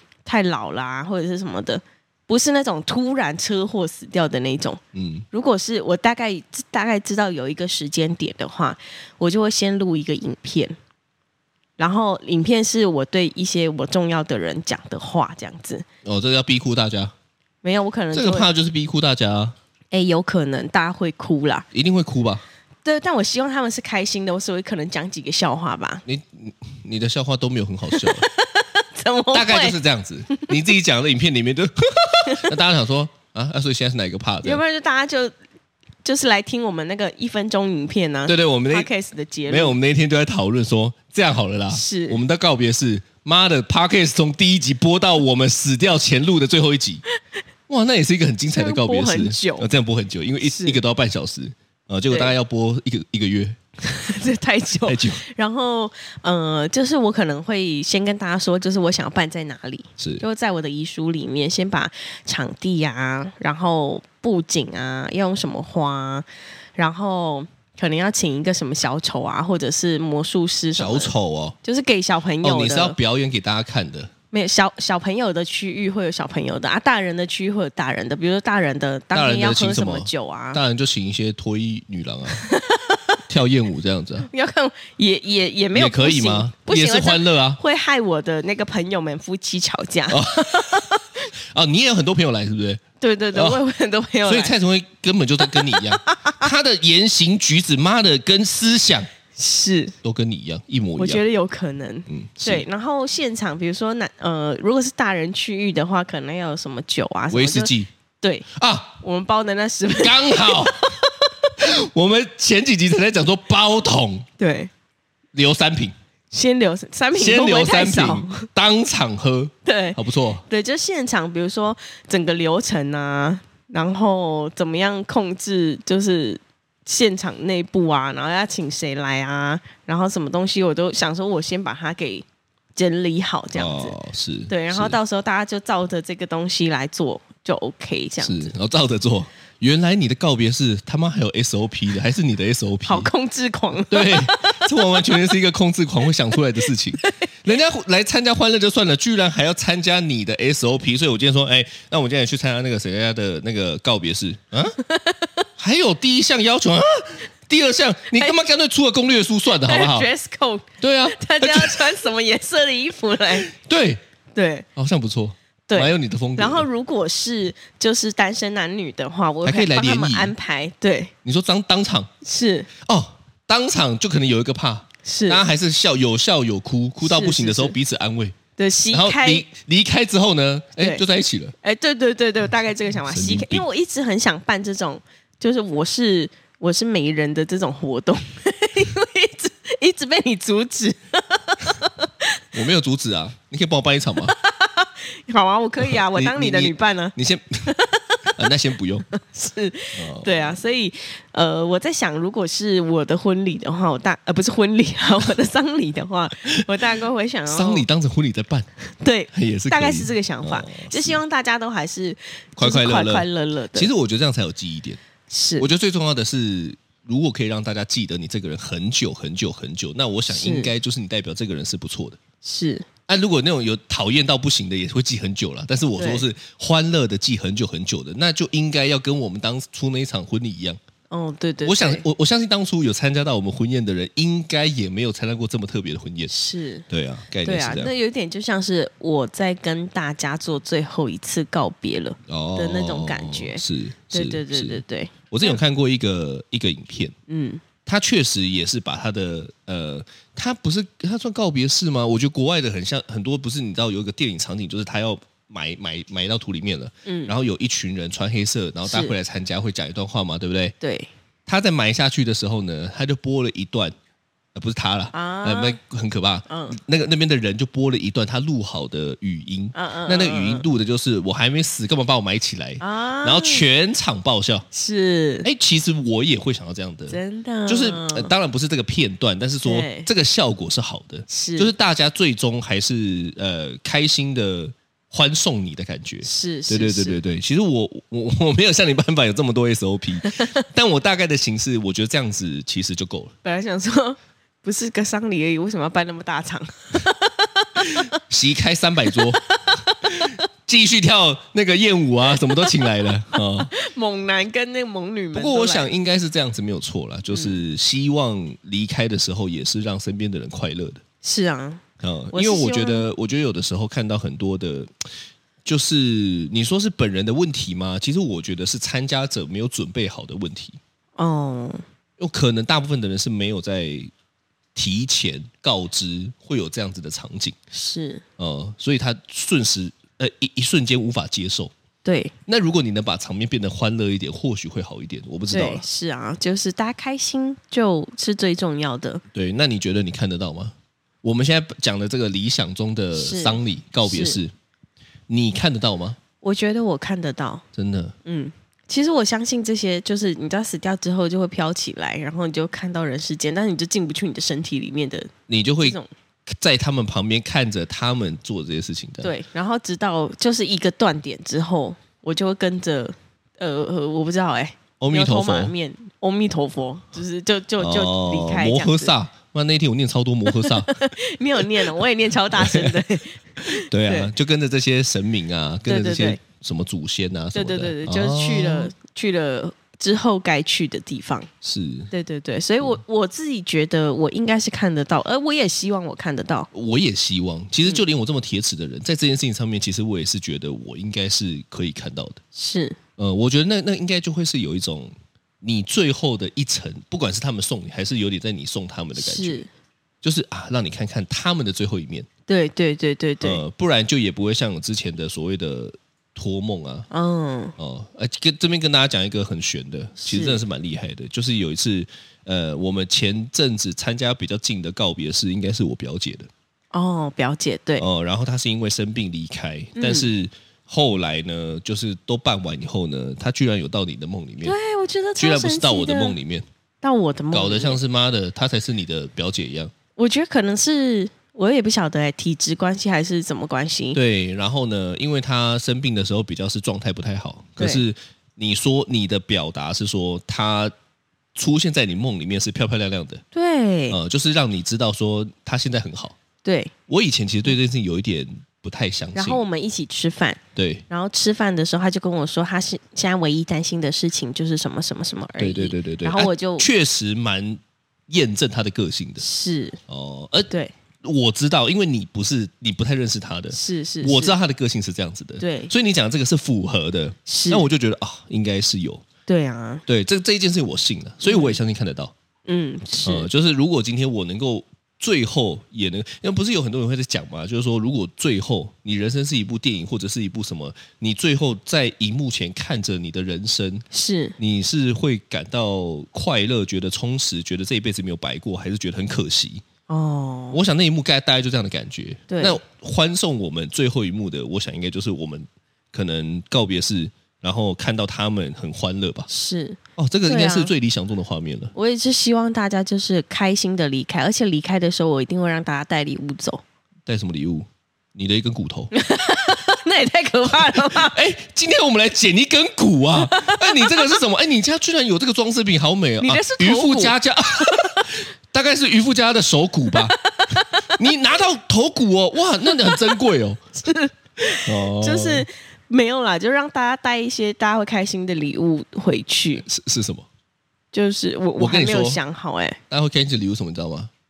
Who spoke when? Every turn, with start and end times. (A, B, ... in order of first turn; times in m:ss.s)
0:00.2-0:04.8 A
0:04.9-0:05.2 B
0:05.3-0:10.8 A
0:11.8-0:15.8 A
0:16.0-0:17.1 B
0:17.6-0:18.5 A
0:18.1-0:19.6 B
0:19.9-0:21.6 A
0:21.7-0:22.4 B
0:22.8-0:26.0 A
0:26.0-0:28.2 B
0:27.9-0:29.8 A
0:29.3-0:34.6 B
0:34.4-0:35.3 A
0:36.0-0:39.8 A
0:38.3-0:38.9 B
0:39.5-0:47.0 B
0:41.7-0:42.2 A
0:47.7-0:53.6 B
0:48.5-0:49.7 A
0:50.4-0:50.8 A
0:53.8-1:11.1 A
0:54.8-0:55.2 B
1:00.0-1:00.2 B
1:10.8-1:11.6 B
1:11.6-1:13.0 A
1:12.4-1:14.1 B
1:14.3-1:20.6 A
1:19.1-1:22.4 B
1:22.3-1:23.0 A
1:23.3-1:24.3 B
1:24.2-1:31.0 A
1:25.7-1:27.6 B
1:30.1-1:30.9 B
1:31.5-1:32.8 B
1:33.0-1:34.5 A
1:33.3-1:33.6 B
1:34.2-1:39.1 B
1:35.6-1:36.4 A
1:39.4-1:39.9 A
1:40.0-1:41.2 B
1:41.0-1:48.4 A
1:42.1-1:42.6 B
1:47.3-1:47.9 B
1:48.5-1:49.0 B
1:49.0-1:51.1 A
1:50.0-1:54.3 B
1:54.4-1:54.7 A
1:55.3-1:55.9 B
1:56.3-1:58.5 A
1:57.1-2:00.4 B
1:59.6-2:13.9 A
2:13.5-2:15.0 B
2:14.5-2:18.5 A
2:18.2-2:23.1 B
2:22.8-2:24.7 A
2:23.9-2:34.8 B
2:27.0-2:27.3 A
2:34.8-2:35.4 A
2:35.6-2:40.1 B
2:39.6-2:43.5 A
2:40.8-2:41.9 B
2:43.4-2:44.0 B
2:44.3-2:44.6 A
2:44.8-2:46.6 B
2:45.7-2:51.1 A
2:49.4-2:50.3 B
2:51.2-2:52.1 B
2:52.2-2:52.7 A
2:52.8-2:58.4 B
2:55.0-2:55.4 A
2:57.0-2:57.8 A
2:58.6-2:59.4 A
2:58.9-3:01.5 B
3:01.6-3:12.4 A
3:03.0-3:03.6 B
3:12.5-3:14.3 B
3:14.3-3:17.1 A
3:15.8-3:17.7 B
3:17.7-3:18.3 A
3:18.3-3:19.1 B
3:19.1-3:27.8 A
3:20.0-3:20.6 B
3:27.5-3:28.7 B
3:29.0-3:33.9 A
3:29.3-3:31.2 B
3:32.6-3:35.0 B
3:35.3-3:35.7 A
3:35.6-3:42.2 B
3:40.3-3:40.7 A
3:42.4-3:42.8 A
3:43.1-3:50.8 B
3:46.0-3:46.2 A
3:51.1-3:52.0 A
3:51.6-3:56.3 B
3:56.3-3:56.8 A
3:56.9-3:57.9 B
3:57.4-4:05.6 A
4:02.3-4:07.1 B
4:07.3-4:07.6 A
4:07.8-4:20.7 B
4:17.0-4:17.3 A
4:18.8-4:19.1 A
4:20.8-4:21.1 A
4:21.4-4:23.9 B
4:24.5-4:34.6 B
4:25.1-4:25.8 A
4:26.5-4:26.8 A
4:29.7-4:30.6 A
4:32.8-4:33.6 A
4:34.7-4:35.5 A
4:35.4-4:53.3 B
4:37.1-4:38.3 A
4:39.6-4:40.1 A
4:41.3-4:41.7 A
4:46.2-4:47.2 A
4:53.4-4:58.1 A
4:58.2-4:59.4 B
4:59.1-5:00.4 A
5:00.0-5:03.7 B
5:03.4-5:05.9 A
5:05.3-5:11.0 B
5:07.3-5:07.6 A
5:11.2-5:11.8 A
5:12.0-5:14.9 B
5:12.3-5:13.1 A
5:15.6-5:20.8 B
5:21.2-5:21.8 A
5:22.2-5:24.1 B
5:24.7-5:27.6 B
5:27.7-5:28.2 A
5:28.4-5:31.7 B
5:32.0-5:32.3 A
5:32.5-5:35.8 B
5:35.5-5:39.2 A
5:39.3-5:44.5 B
5:43.1-5:44.4 A
5:45.3-5:46.2 B
5:46.4-5:47.6 A
5:47.7-5:48.1 B
5:48.2-5:56.1 A
5:55.5-5:59.3 B
5:59.2-6:09.1 A
6:05.0-6:05.7 B
6:07.8-6:11.0 B
6:10.5-6:14.3 A
6:11.6-6:11.9 B
6:12.5-6:13.0 B
6:13.6-6:18.9 B
6:15.9-6:16.4 A
6:17.5-6:21.5 A
6:21.6-6:22.1 B
6:22.1-6:26.7 A
6:26.7-6:32.4 B
6:32.5-6:33.0 A
6:33.2-6:39.6 B
6:39.2-6:39.7 A
6:40.2-6:42.3 B
6:42.5-6:43.6 A
6:43.4-6:47.1 B
6:47.1-6:47.7 A
6:47.8-6:56.5 B
6:50.2-6:50.6 A
6:56.9-6:58.0 A
6:58.0-7:04.7 B
6:59.9-7:00.3 A
7:04.6-7:06.4 A
7:05.4-7:06.6 B
7:07.0-7:08.0 A
7:07.5-7:09.9 B
7:10.2-7:14.2 A
7:14.1-7:20.9 B
7:21.5-7:23.4 B
7:23.5-7:24.2 A
7:24.1-7:26.4 B
7:26.6-7:26.9 A
7:27.1-7:29.6 B
7:29.3-7:36.9 A
7:30.8-7:31.0 B
7:35.6-7:39.4 B
7:39.4-7:40.0 A
7:40.1-7:40.7 B
7:41.2-7:49.2 B
7:43.7-7:44.6 A
7:45.6-7:45.9 A
7:47.5-7:47.8 A
7:49.5-7:50.0 A
7:50.1-7:52.3 B
7:51.4-7:51.8 A
7:52.6-7:53.5 A
7:53.2-8:04.0 B
8:04.1-8:04.5 A
8:04.6-8:09.8 B
8:10.1-8:10.8 A
8:10.7-8:19.5 B
8:12.5-8:12.8 A
8:19.5-8:20.9 A
8:20.2-8:21.9 B
8:21.9-8:26.8 A
8:27.2-8:29.1 B
8:29.1-8:31.4 A
8:30.7-8:40.3 B
8:33.4-8:34.2 A
8:36.4-8:38.3 A
8:40.1-8:41.1 A
8:41.1-8:43.8 B
8:42.8-8:43.4 A
8:44.0-8:49.8 A
8:44.8-8:45.6 B
8:49.8-8:50.5 B
8:51.1-8:53.0 A
8:51.8-8:52.4 B
8:53.1-8:54.3 B